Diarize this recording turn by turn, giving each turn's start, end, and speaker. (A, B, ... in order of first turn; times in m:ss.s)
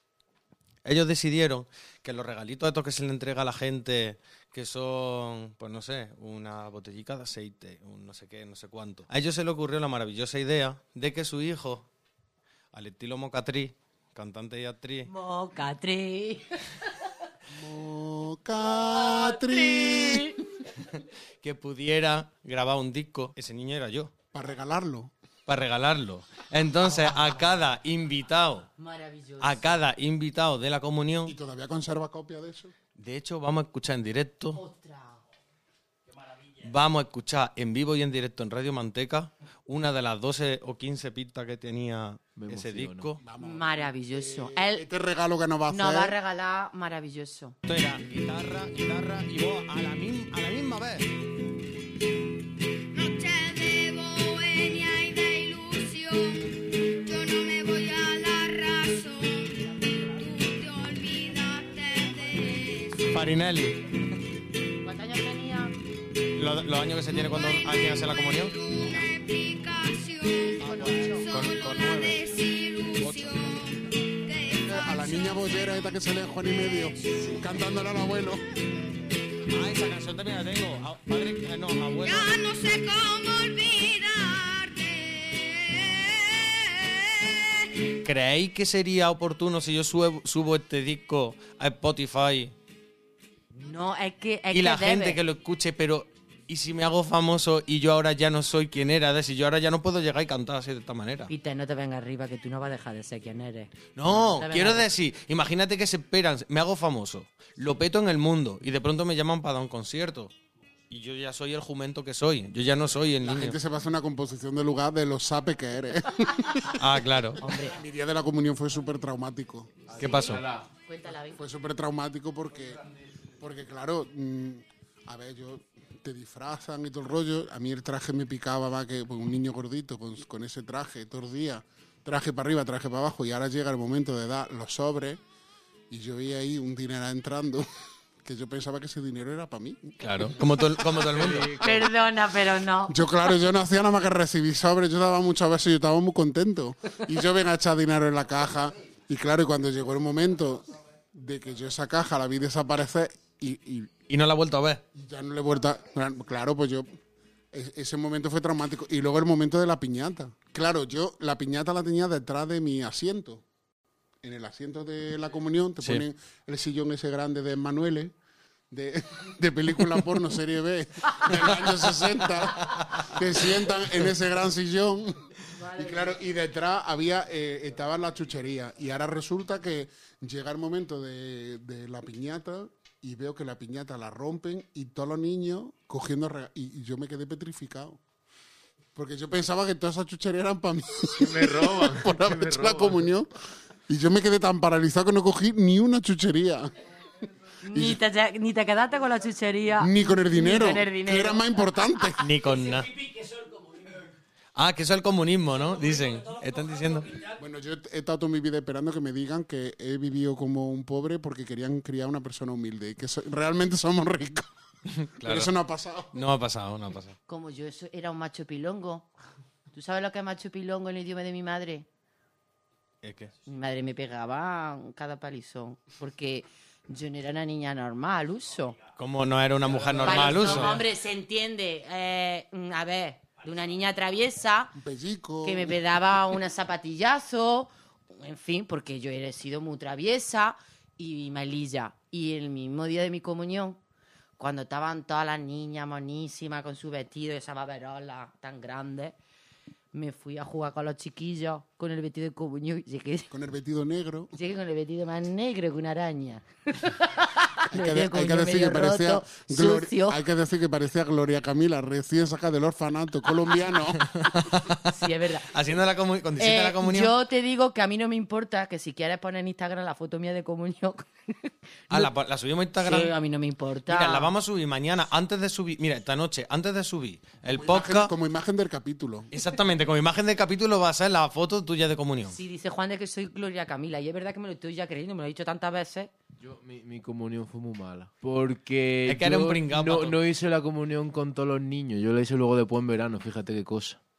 0:00.8-0:11.9 A
0:12.7-0:15.1 A
0:15.0-0:16.7 B
0:17.5-0:20.3 C
0:18.7-0:20.4 B
0:21.4-0:24.1 A
0:24.3-0:25.1 C
0:25.4-0:28.7 A
0:28.8-0:29.8 B
0:29.4-0:31.3 A
0:31.2-0:32.7 C
0:33.0-0:34.6 A
0:34.5-0:35.2 B
0:36.6-0:43.2 A
0:42.3-0:43.1 D
0:43.2-0:46.2 C
0:43.4-0:44.8 B
0:45.7-0:47.6 B
0:47.6-0:51.2 A
0:52.9-1:03.2 E
1:03.1-1:03.9 A
1:04.8-1:05.8 B
1:06.3-1:08.6 A
1:07.3-1:17.5 E
1:08.8-1:09.1 B
1:10.6-1:11.3 B
1:10.6-1:12.2 A
1:13.0-1:13.6 A
1:14.6-1:18.4 C
1:19.5-1:22.3 A
1:21.9-1:27.9 E
1:28.0-1:32.5 A
1:33.5-1:35.2 B
1:34.5-1:41.3 A
1:41.3-1:44.9 B
1:43.9-1:50.3 A
1:50.9-1:53.6 A
1:53.2-1:59.9 C
1:56.7-1:57.4 A
1:57.4-1:57.8 B
1:59.9-2:00.7 D
2:00.0-2:00.4 A
2:00.0-2:01.4 B
2:01.4-2:02.8 C
2:03.4-2:15.2 C
2:15.9-2:17.7 C
2:18.2-2:21.0 C
2:20.0-2:21.8 A
2:21.1-2:21.7 D
2:21.6-2:23.0 B
2:22.9-2:33.9 C
2:34.1-2:34.8 A
2:34.9-2:36.9 C
2:37.5-2:43.4 C
2:44.2-2:48.1 C
2:48.7-3:08.0 C
2:52.7-2:53.0 A
2:55.5-2:56.2 B
3:08.9-3:13.3 C
3:11.2-3:13.0 D
3:13.9-3:16.7 C
3:17.6-3:22.2 B
3:17.7-3:18.0 C
3:19.8-3:22.3 C
3:22.2-3:22.9 A
3:22.4-3:24.1 E
3:24.6-3:27.2 A
3:25.6-3:27.4 E
3:27.4-3:34.5 C
3:34.9-3:35.5 A
3:35.2-3:36.2 C
3:36.1-3:37.2 A
3:37.3-3:39.1 B
3:39.7-3:41.8 B
3:43.0-3:43.3 A
3:43.4-3:48.8 B
3:49.0-3:50.8 A
3:50.0-3:54.8 B
3:54.7-3:55.8 C
3:55.4-4:03.8 B
4:04.4-4:09.2 B
4:09.9-4:13.3 B
4:13.3-4:14.3 C
4:14.3-4:20.2 B
4:17.7-4:24.0 C
4:24.0-4:27.1 A
4:24.9-4:25.5 B
4:26.4-4:32.1 B
4:31.9-4:33.1 A
4:32.8-4:34.3 B
4:33.9-4:38.1 A
4:37.5-4:39.3 C
4:39.3-4:42.4 A
4:42.3-4:46.1 B
4:46.4-4:54.0 D
4:49.0-4:50.2 A